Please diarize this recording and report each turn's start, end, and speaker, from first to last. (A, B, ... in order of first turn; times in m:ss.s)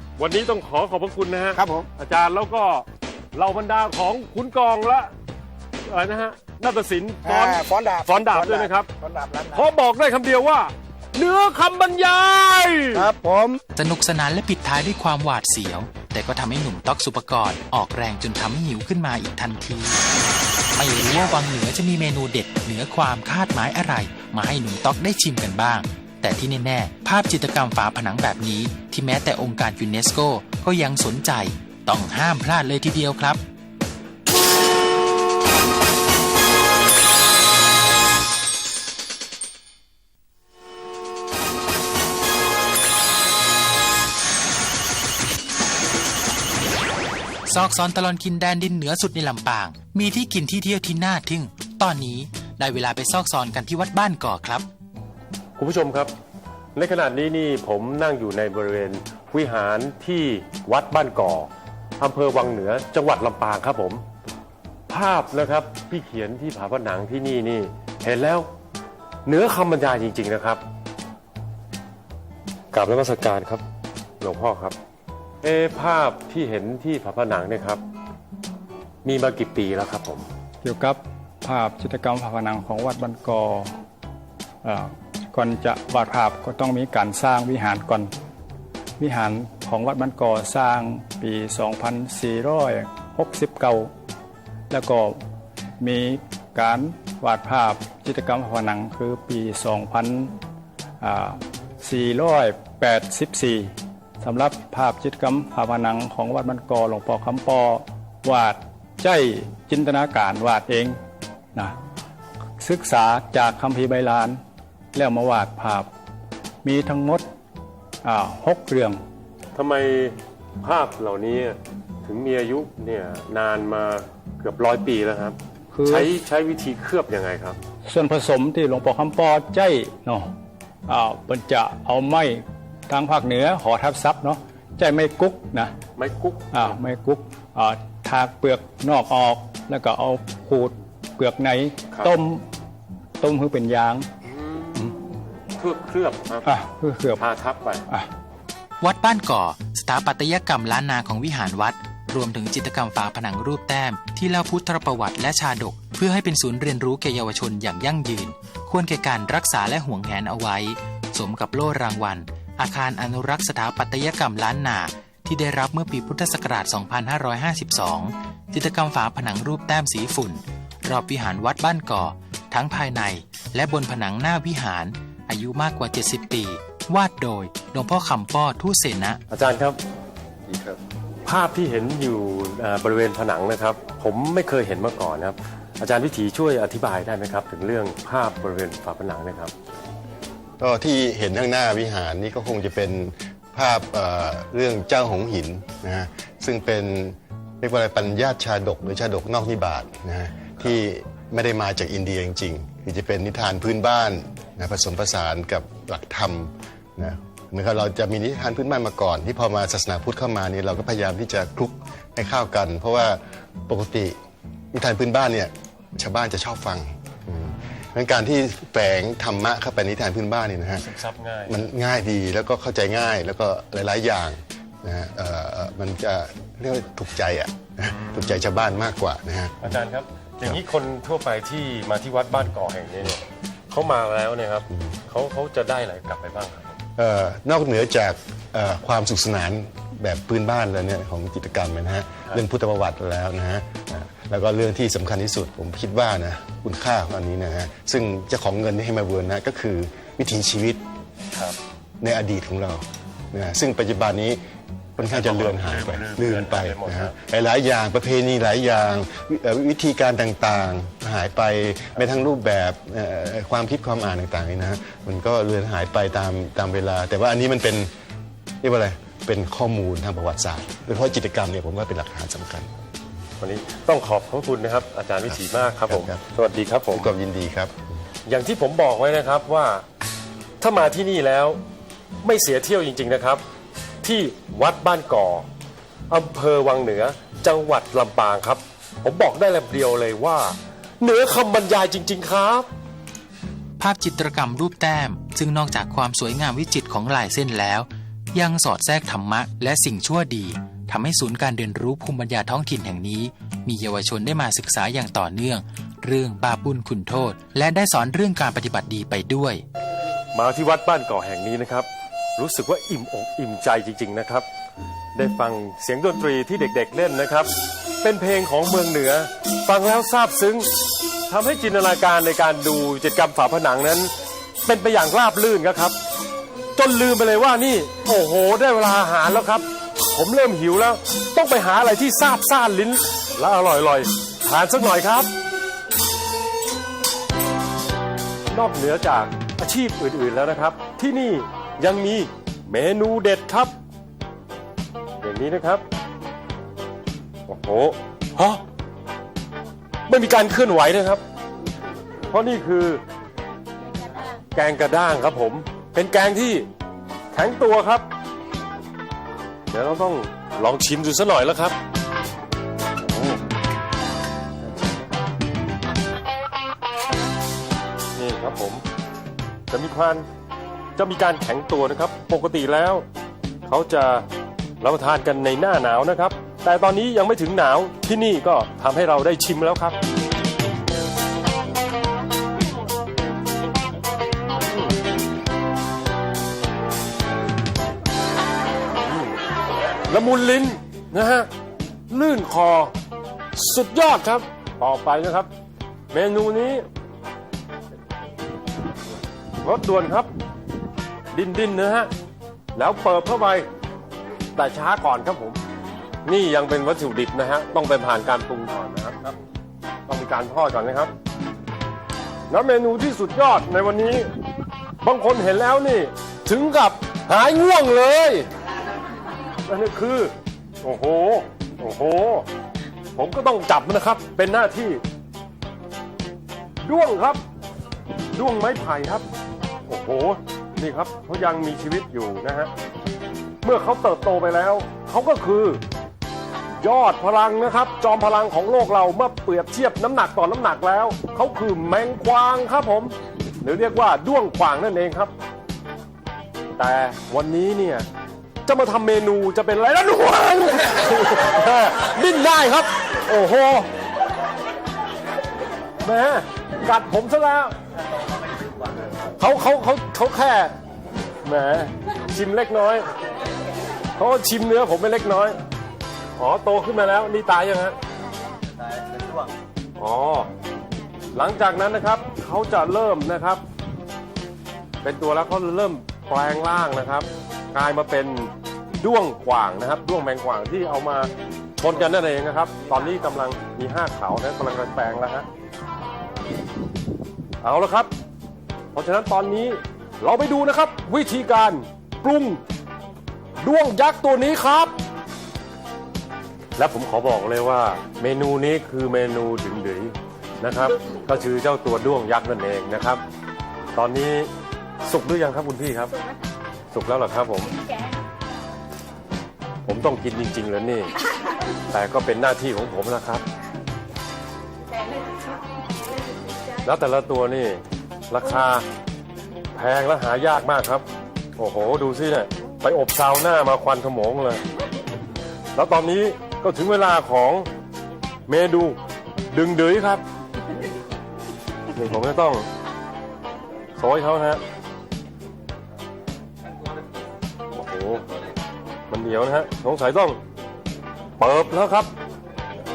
0:00.2-0:05.1 A
0:01.5-0:01.9 B
0:05.9-0:08.9 A
0:07.2-0:09.7 B
0:09.5-0:13.1 A
0:12.9-0:13.6 B
0:13.8-0:20.0 C
0:20.7-0:33.4 C
0:47.5-0:54.7 C
0:55.6-0:56.1 A
0:56.8-1:04.0 A
1:04.9-1:08.5 A
1:09.2-1:10.6 A
1:12.7-1:13.6 A
1:14.2-1:14.8 A
1:15.4-1:17.8 A
1:19.0-1:20.3 A
1:20.6-1:23.7 D
1:24.6-1:28.1 D
1:29.0-1:33.9 D
1:34.7-1:35.2 D
1:35.8-1:40.4 D
1:41.0-1:51.0 D
1:52.6-1:54.4 D
1:54.9-1:55.9 D
1:56.6-1:57.3 D
1:58.0-1:59.0 D
1:59.5-2:07.6 A
2:05.7-2:06.1 D
2:07.9-2:10.3 D
2:10.9-2:15.8 D
2:16.0-2:16.8 A
2:16.5-2:22.4 D
2:23.2-2:24.1 D
2:24.2-2:24.9 A
2:25.5-2:26.5 A
2:26.4-2:27.2 D
2:27.2-2:27.8 A
2:28.8-2:59.2 C
2:59.3-2:59.8 A
3:00.5-3:00.8 E
3:01.2-3:09.5 A
3:10.6-3:34.2 E
3:34.7-3:40.9 E
3:40.8-3:41.6 A
3:41.5-3:49.7 E
3:47.9-3:48.4 A
3:49.6-3:56.8 A
3:57.0-4:10.8 E
4:12.0-4:14.4 E
4:15.0-4:27.9 E
4:15.0-4:17.1 A
4:28.6-4:32.7 E
4:33.4-4:37.1 A
4:35.8-4:36.2 E
4:36.9-4:37.8 E
4:38.3-4:39.8 A
4:40.6-4:41.6 A
4:42.2-4:43.4 A
4:44.0-4:45.4 A
4:46.1-4:52.7 A
4:53.8-5:09.6 C
5:10.3-5:14.4 A
5:15.1-5:17.5 A
5:18.0-5:20.7 A
5:21.3-5:24.1 A
5:24.6-5:26.0 A
5:26.8-5:35.3 A
5:38.5-5:43.7 A
5:45.2-5:45.8 A
5:47.5-5:48.6 A
5:50.1-5:51.2 A
5:52.3-5:53.0 A
5:54.4-5:56.7 A
5:57.3-5:58.0 A
5:59.7-6:01.8 A
6:03.0-6:03.4 A
6:08.2-6:08.8 A
6:09.7-6:10.2 A
6:11.0-6:13.0 A
6:13.7-6:14.2 A
6:14.8-6:20.0 A
6:29.0-6:29.4 A
6:30.0-6:31.5 A
6:32.1-6:32.9 A
6:33.6-6:35.5 A
6:36.1-6:36.8 A
6:39.6-6:40.3 A
6:41.3-6:42.1 A
6:42.7-6:43.6 A
6:44.6-6:45.6 A
6:46.2-6:49.3 A
6:50.1-6:51.1 A
6:52.5-6:54.3 A
6:55.0-6:58.5 A
6:59.7-7:02.4 A
7:03.2-7:05.0 A
7:06.8-7:07.4 A
7:08.4-7:09.2 A
7:09.9-7:12.7 A
7:13.6-7:15.8 A
7:16.8-7:25.3 A
7:26.8-7:28.0 A
7:28.6-7:33.9 A
7:36.0-7:37.7 A
7:39.4-7:40.7 A
7:41.4-7:43.0 A
7:44.2-7:45.6 A
7:46.4-7:48.0 A
7:50.0-7:50.5 A
7:51.3-7:53.6 A
7:55.0-8:05.5 A
8:07.6-8:08.1 A
8:08.9-8:12.6 A
8:13.6-8:14.9 A
8:16.8-8:23.2 A
8:23.9-8:24.5 A
8:25.0-8:26.2 A
8:26.9-8:27.8 A
8:29.8-8:31.1 A
8:31.9-8:33.4 A
8:36.8-8:38.8 A
8:39.7-8:41.0 A
8:41.6-8:44.6 A
8:45.7-8:47.7 A
8:48.5-8:49.0 A
8:49.5-8:50.2 A
8:51.9-8:52.6 A
8:54.0-8:54.6 A
8:57.7-8:58.2 A
8:59.1-9:00.4 A
9:01.4-9:02.1 A